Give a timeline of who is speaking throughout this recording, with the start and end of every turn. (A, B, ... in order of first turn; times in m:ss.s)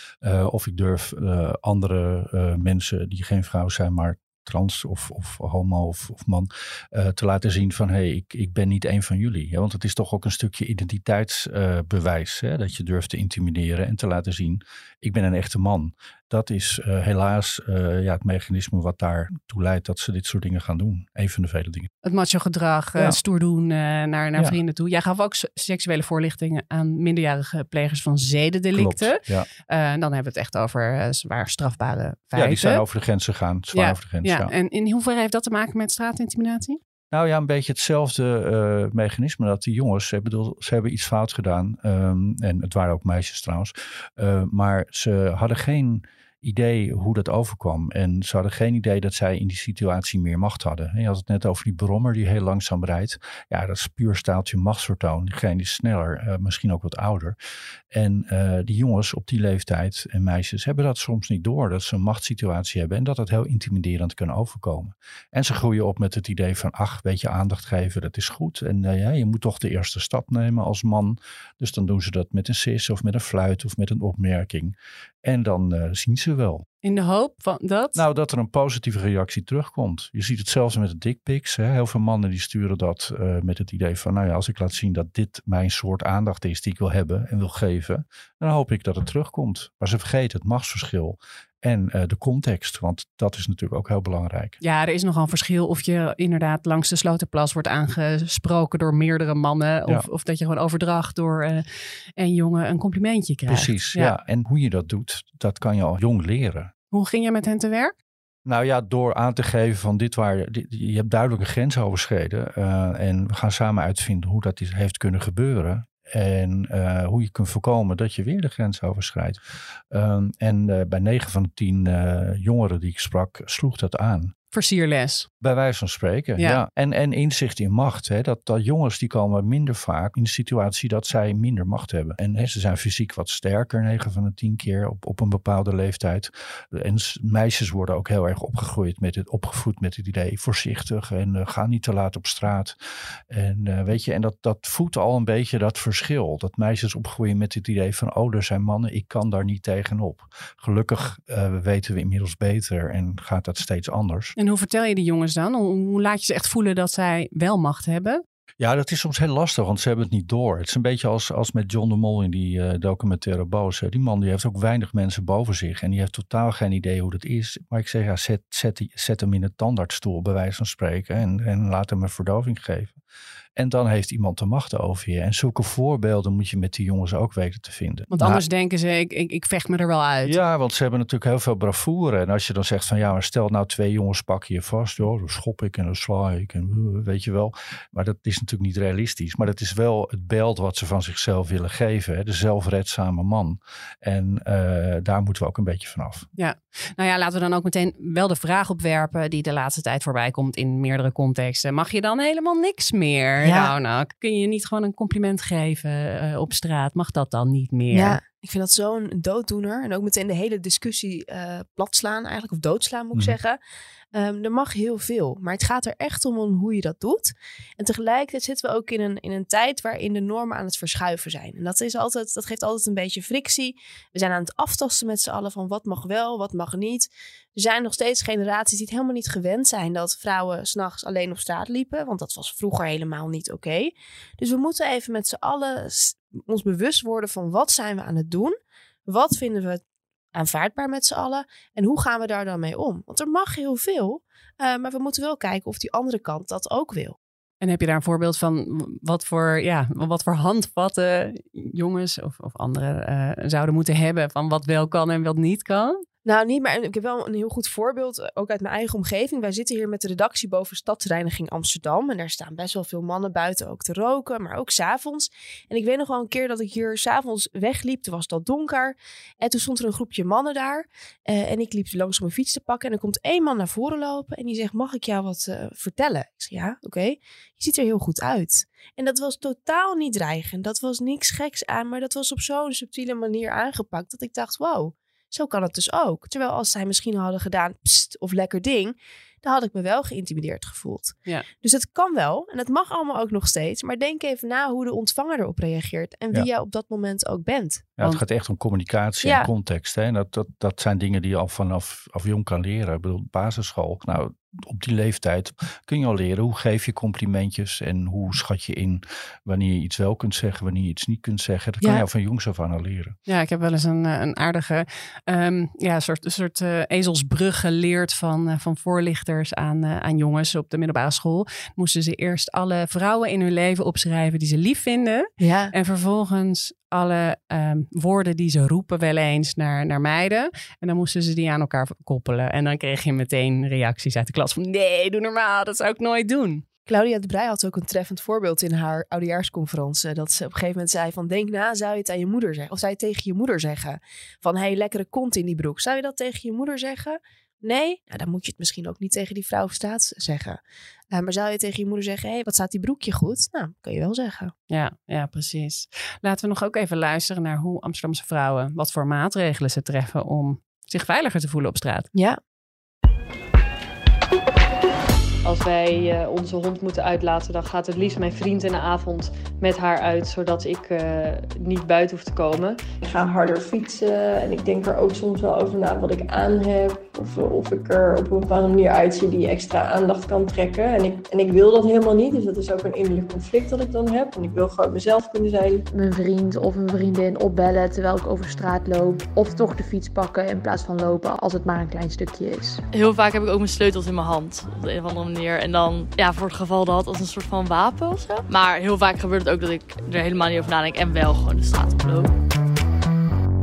0:00.2-0:21.9 A
0:22.0-0:32.8 B
0:28.7-0:29.5 A
0:32.3-0:34.5 A
0:33.7-0:36.8 B
0:37.1-0:57.4 A
0:57.9-1:16.6 A
1:16.8-1:18.0 B
1:18.0-1:34.6 A
1:34.6-1:41.6 B
1:42.2-1:44.1 B
1:43.5-1:46.7 A
1:46.9-1:47.9 B
1:48.4-1:59.4 A
1:59.9-2:04.3 A
2:04.5-2:05.3 B
2:05.4-2:22.8 A
2:23.3-2:34.3 A
2:34.4-2:38.2 B
2:38.6-2:53.0 A
2:53.6-2:58.4 A
2:58.1-3:00.4 B
3:00.2-3:16.3 A
3:16.4-3:28.2 B
3:23.4-3:23.7 C
3:27.9-3:33.6 C
3:34.1-3:58.6 C
3:59.1-3:59.8 C
4:00.3-4:07.2 C
4:07.6-4:16.0 B
4:16.2-4:57.9 C
4:58.0-5:13.2 A
4:59.2-4:59.5 C
5:13.3-5:36.6 B
5:25.4-5:25.7 C
5:36.8-5:50.6 C
5:51.1-5:54.5 C
5:54.7-6:02.1 B
6:02.1-6:02.4 C
6:05.4-6:12.8 D
6:13.0-6:25.8 E
6:25.9-6:32.8 F
6:32.9-6:42.3 G